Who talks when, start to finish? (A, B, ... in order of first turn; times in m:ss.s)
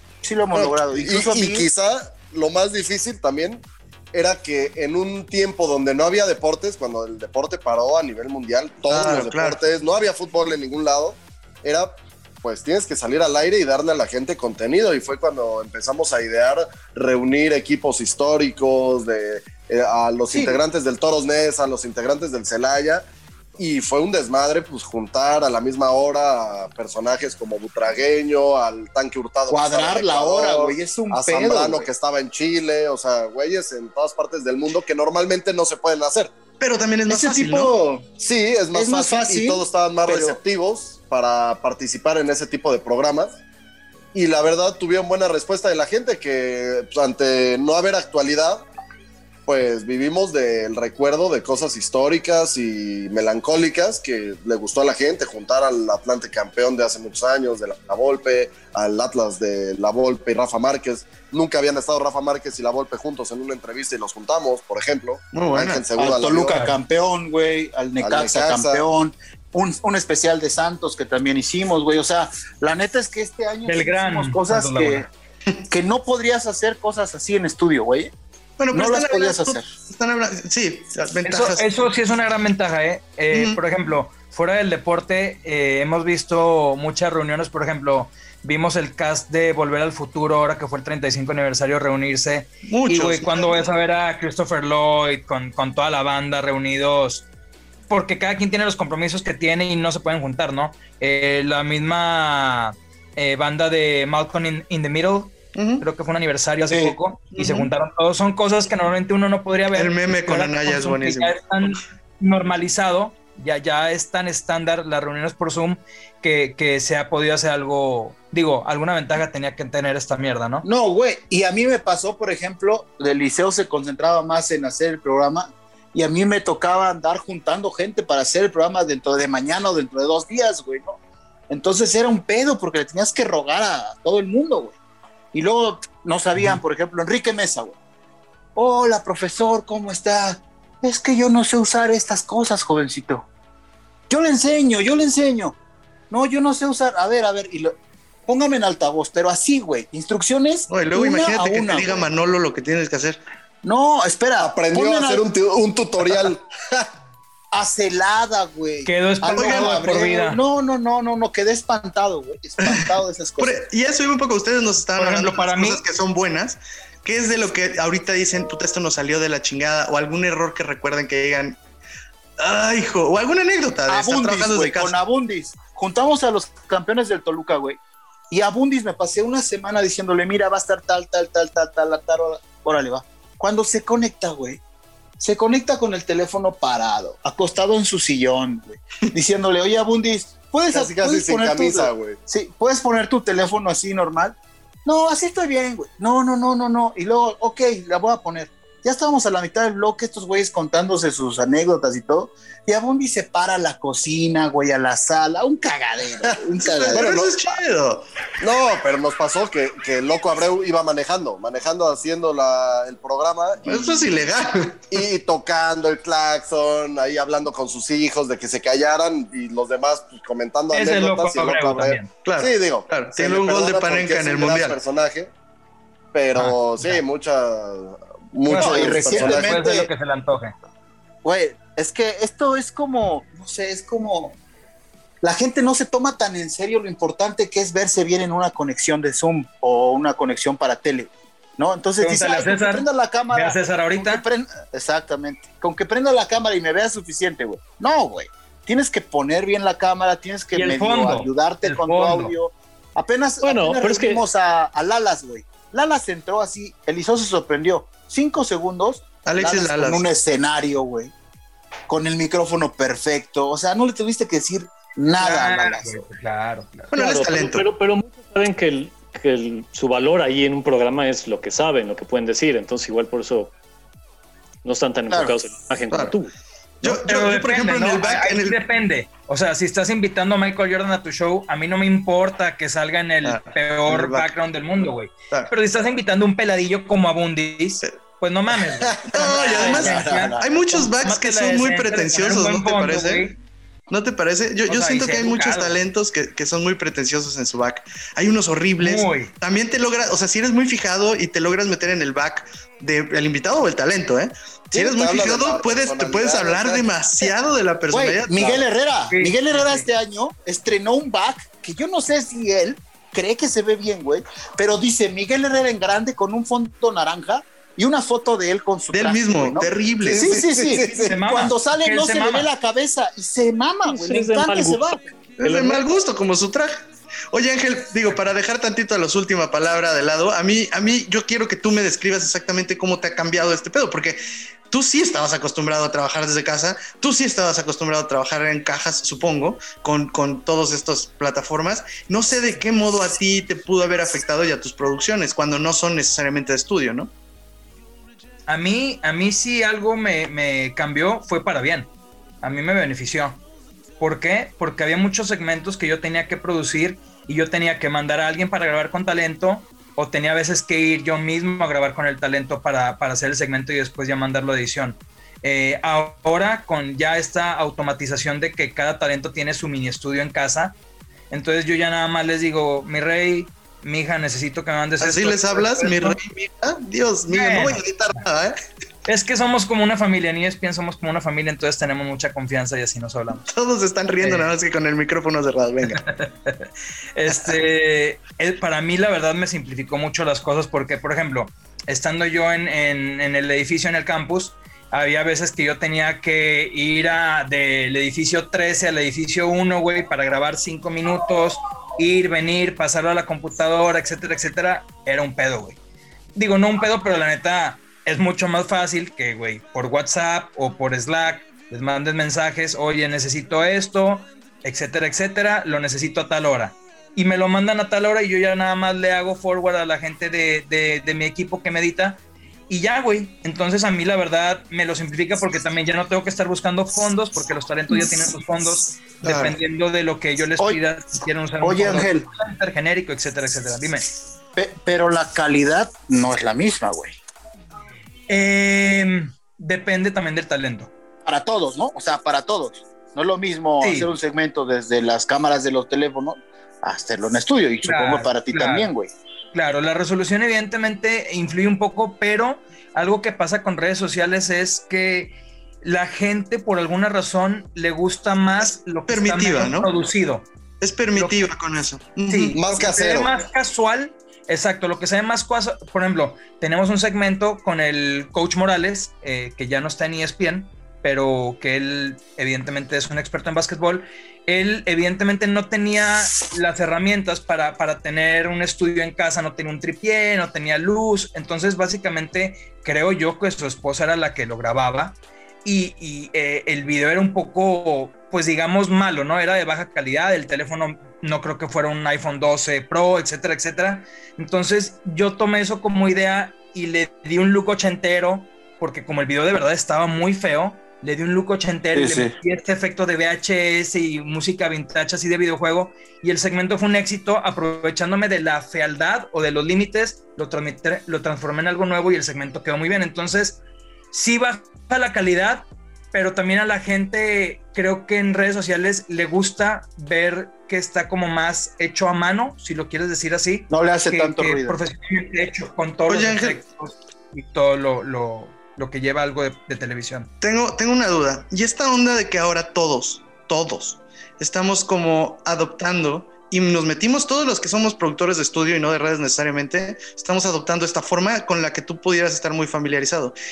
0:00.2-0:01.7 A
0:00.5-0:36.3 B
0:08.9-0:09.6 C
0:20.3-0:20.6 A
0:29.5-0:31.9 A
0:36.6-0:37.7 C
0:37.1-0:38.1 A
0:38.2-0:43.3 B
0:38.7-0:40.4 A
0:44.1-0:48.7 B
0:49.4-1:06.6 B
1:05.3-1:05.8 C
1:06.0-1:15.1 A
1:06.4-1:06.8 D
1:08.0-1:08.8 B
1:13.7-1:15.0 D
1:15.7-1:18.1 A
1:18.6-1:21.7 C
1:18.7-1:19.6 A
1:21.2-1:37.2 D
1:23.3-1:23.6 C
1:32.7-1:33.7 C
1:37.9-2:00.6 D
1:45.5-1:45.8 C
1:46.7-1:47.0 A
1:47.3-1:47.7 C
1:49.7-1:51.4 C
2:00.6-2:14.8 A
2:15.3-2:17.8 A
2:18.5-2:23.2 A
2:24.1-2:25.6 A
2:26.1-2:27.7 A
2:28.3-2:32.0 A
2:30.7-2:33.2 C
2:33.6-2:35.2 A
2:34.4-2:36.9 B
2:37.5-2:43.6 A
2:38.8-2:40.4 D
2:39.4-2:39.7 C
2:43.4-2:51.6 C
2:45.0-2:45.8 D
2:52.4-2:54.9 C
2:53.9-2:57.8 A
2:58.3-3:04.6 A
3:05.2-3:27.1 A
3:10.7-3:12.2 B
3:26.6-3:28.0 C
3:26.9-3:27.3 B
3:28.4-3:34.1 B
3:33.6-3:34.9 C
3:34.9-3:45.3 B
3:40.7-3:42.1 D
3:42.2-3:44.8 C
3:46.1-3:49.6 B
3:46.3-3:47.0 D
3:48.5-3:50.6 D
3:48.5-3:49.9 A
3:51.2-3:54.4 A
3:55.2-4:21.1 A
4:02.0-4:04.2 D
4:10.5-4:12.3 D
4:13.4-4:14.2 E
4:19.2-4:20.0 C
4:21.9-4:26.0 A
4:25.2-4:26.9 D
4:26.9-4:27.6 C
4:26.9-4:33.5 E
4:34.6-4:36.3 E
4:36.8-4:38.6 C
4:36.8-4:50.4 D
4:43.2-4:44.3 C
4:49.1-4:53.3 C
4:49.2-4:50.9 A
4:51.0-4:53.3 D
4:53.9-5:08.6 C
4:54.7-4:55.8 D
4:58.8-4:59.3 D
5:04.7-5:06.9 B
5:07.9-5:25.0 A
5:09.1-5:09.9 D
5:18.9-5:20.6 C
5:20.0-5:21.1 B
5:21.1-5:22.5 D
5:23.8-5:25.8 E
5:25.4-5:47.1 C
5:48.5-5:51.9 D
5:52.4-5:53.4 D
5:54.0-6:10.7 D
6:11.3-6:16.2 D
6:15.0-6:18.6 C
6:17.3-6:18.2 D
6:19.1-6:23.4 D
6:23.4-6:26.0 C
6:24.2-6:24.5 D
6:25.9-6:45.8 D
6:27.3-6:27.6 C
6:46.3-7:14.1 D
7:09.2-7:09.6 C
7:11.6-7:12.3 A
7:14.6-7:17.2 A
7:18.3-7:20.9 D
7:21.2-7:29.1 A
7:23.8-7:24.1 D
7:27.8-7:28.9 D
7:29.5-7:40.5 D
7:39.1-7:39.9 C
7:40.8-7:42.6 C
7:42.3-8:33.6 D
7:42.5-7:43.3 B
8:21.9-8:22.3 A
8:34.1-8:50.3 D
8:43.7-8:44.8 A
8:46.1-8:46.6 C
8:50.4-9:03.4 C